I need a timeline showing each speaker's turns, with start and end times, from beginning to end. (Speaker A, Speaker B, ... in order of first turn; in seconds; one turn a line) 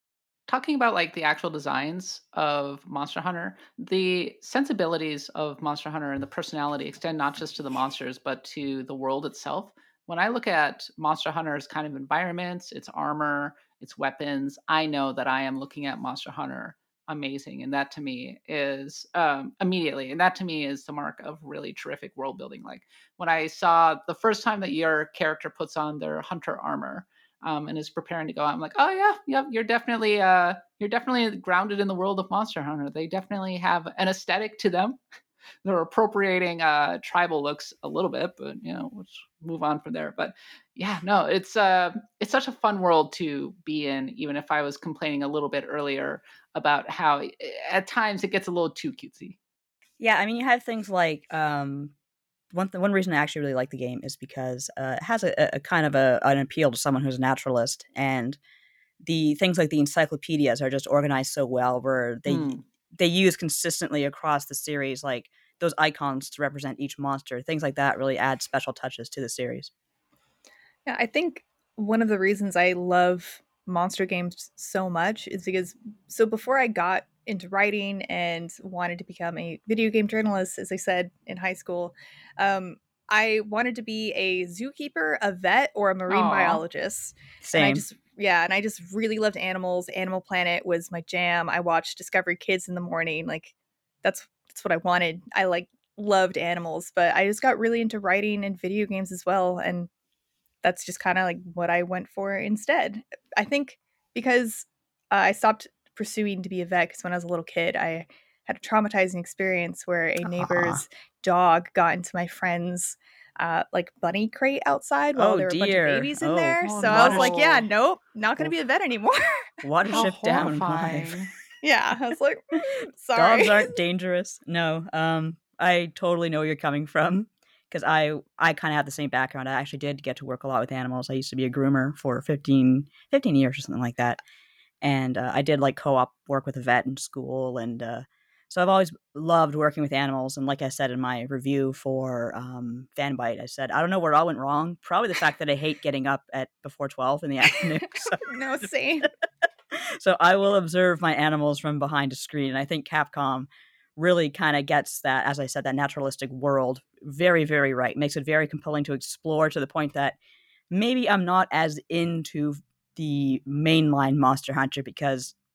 Speaker A: 0.5-35.0
Speaker A: 35.6-49.4
Speaker B: 50.0-51.9
Speaker B: 52.5-58.4
Speaker B: 59.0-69.7
Speaker A: 62.2-62.6
Speaker C: 70.8-99.9
Speaker A: 86.1-86.6
Speaker B: 87.4-87.8
Speaker C: 100.6-119.5
Speaker B: 110.2-110.8
Speaker B: 115.2-117.3
Speaker A: 116.6-117.7
Speaker B: 119.6-121.2
Speaker A: 119.9-121.3
Speaker C: 121.6-123.7
Speaker B: 123.1-134.2
Speaker B: 134.8-148.6
Speaker C: 148.2-149.1
Speaker B: 149.7-160.2
Speaker B: 160.7-165.3